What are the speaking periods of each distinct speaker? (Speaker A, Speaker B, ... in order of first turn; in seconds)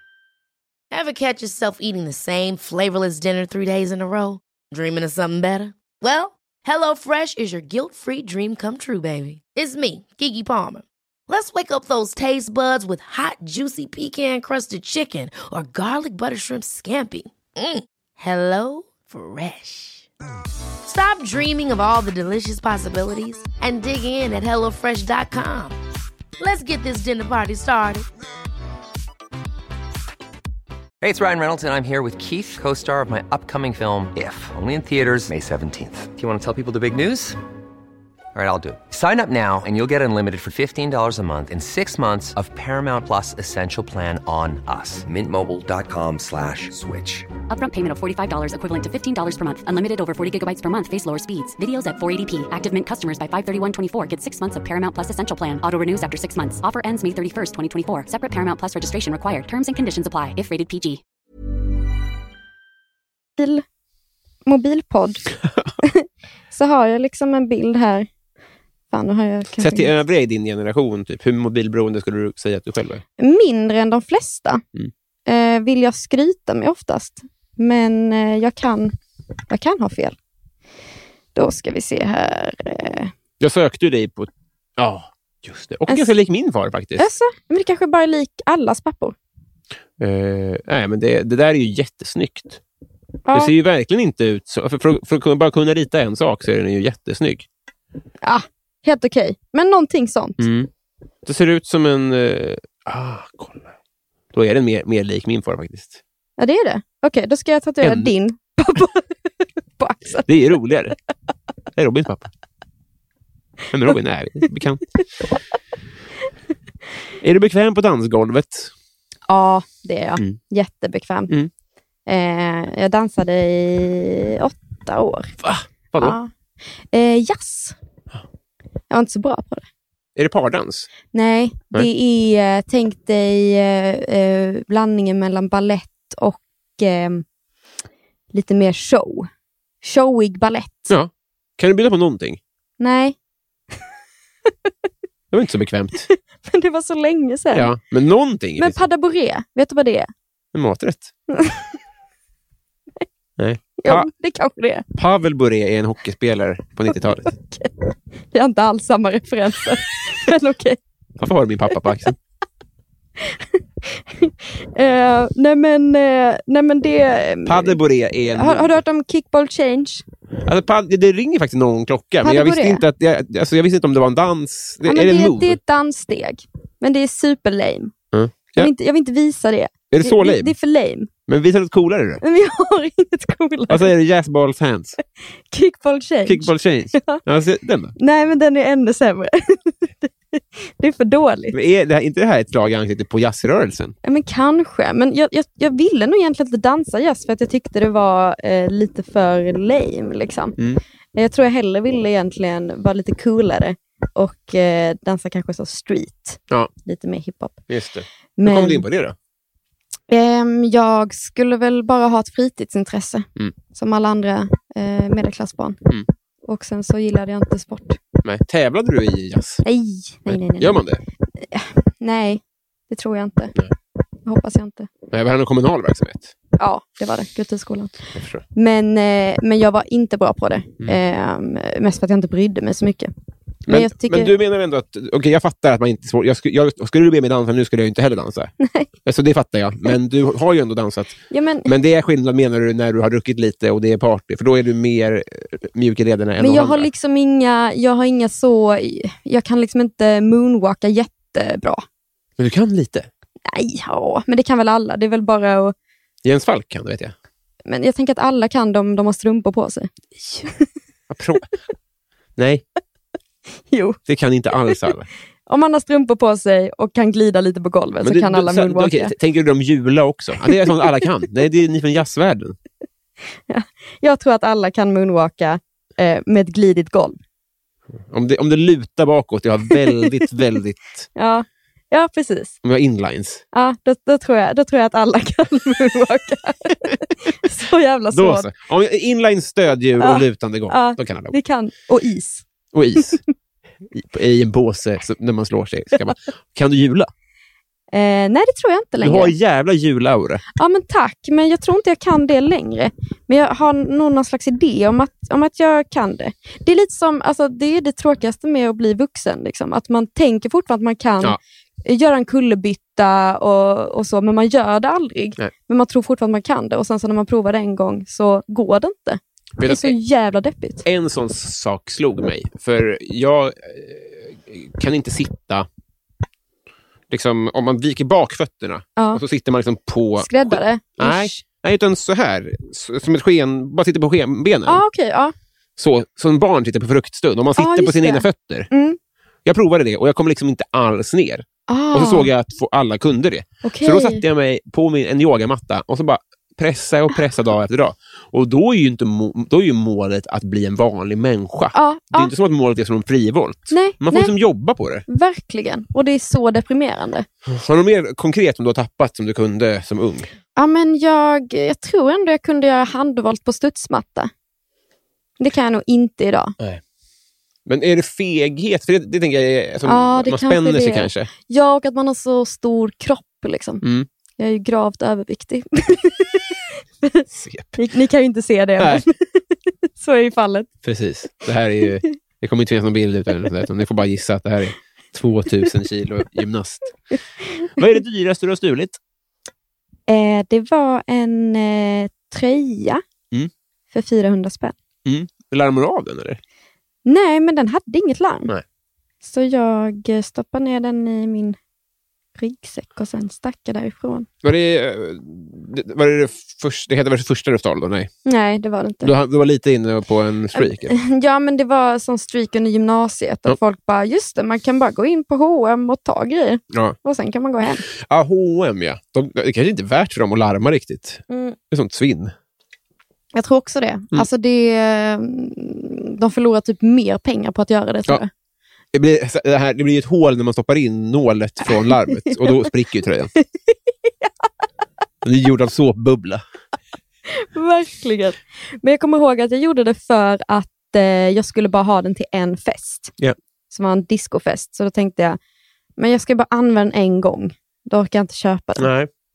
Speaker A: 0.9-20.1, 20.9-25.8, 26.4-28.1
Speaker B: 31.0-37.4, 38.3-47.3
Speaker C: 47.4-61.0
Speaker D: 63.4-63.6, 64.5-65.3, 65.8-68.1, 68.9-69.9, 73.2-74.6, 75.3-78.9, 79.5-80.2, 81.3-83.1, 87.0-89.2, 93.3-93.5, 98.2-100.5, 106.4-109.0, 109.8-110.3, 119.3-121.3, 122.1-125.3, 126.0-126.3, 126.9-127.8, 128.9-129.7, 131.1-137.2, 138.3-139.3, 139.8-140.9, 142.8-143.1, 146.1-147.7, 148.6-150.1, 151.3-151.7, 153.8-154.8, 157.2-157.7, 158.3-160.8, 163.2-167.8, 168.3-170.0, 172.2-172.8, 174.8-177.9, 178.6-181.1, 182.2-183.9, 185.5-187.2, 188.0-191.6, 194.0-200.6, 201.1-207.6, 208.4-208.8, 210.1-215.8, 216.5-218.0, 219.6-220.8, 221.4-223.6, 224.3-224.9, 226.6-227.9, 228.5-233.1, 233.7-234.3, 238.6-238.9, 241.3-241.7, 246.4-251.8, 253.5-255.8, 257.6-260.7, 263.7-264.0, 265.5-269.1, 270.5-270.8, 273.5-277.2, 281.1-282.6, 283.5-288.5, 290.0-292.4, 297.9-299.3, 300.6-320.9, 330.2-331.4, 334.6-335.3, 337.6-339.0, 341.7-342.3, 343.6-344.2, 351.7-352.3, 353.7-354.3, 355.1-357.2, 360.6-364.3, 365.4-366.5, 369.9-373.8, 374.4-380.7, 390.1-393.0, 393.9-394.8, 397.1-398.5, 399.2-401.6, 402.4-404.3, 408.2-409.1, 410.6-417.9, 421.3-421.6, 423.3-428.3, 432.1-432.5, 437.3-443.1, 443.7-445.4, 446.0-448.9
Speaker E: 69.6-73.0, 83.4-87.1, 90.0-92.6, 93.3-97.5, 100.4-100.7, 101.2-103.7, 104.3-106.0, 107.8-108.1, 110.3-111.0, 111.8-112.3, 113.7-114.8, 117.2-118.7, 125.4-126.2, 130.2-130.9, 140.9-142.4, 145.3-146.1, 147.5-148.8, 150.5-151.1, 153.4-154.1, 154.9-157.3, 161.2-162.2, 167.4-168.8, 170.4-175.6, 178.1-178.7, 179.9-180.5, 181.3-182.2, 183.7-185.0, 186.3-187.9, 191.5-193.9, 207.7-209.2, 218.2-219.6, 220.3-221.0, 225.1-226.3, 228.1-228.4, 233.7-238.5, 239.1-246.9, 252.4-253.1, 256.2-257.1, 261.1-261.4, 262.4-262.6, 264.1-265.1, 268.0-272.6, 278.1-281.1, 282.6-283.4, 288.1-291.4, 292.7-293.2, 293.9-297.1, 299.0-300.4, 319.6-319.9, 320.9-325.7, 327.1-334.8, 335.8-338.7, 339.4-355.0, 357.5-360.3, 367.6-371.3, 377.3-377.8, 380.8-386.9, 387.8-389.0, 395.0-396.4, 404.4-408.1, 409.0-410.9, 417.9-422.3, 428.9-433.3, 435.2-436.4, 448.8-449.1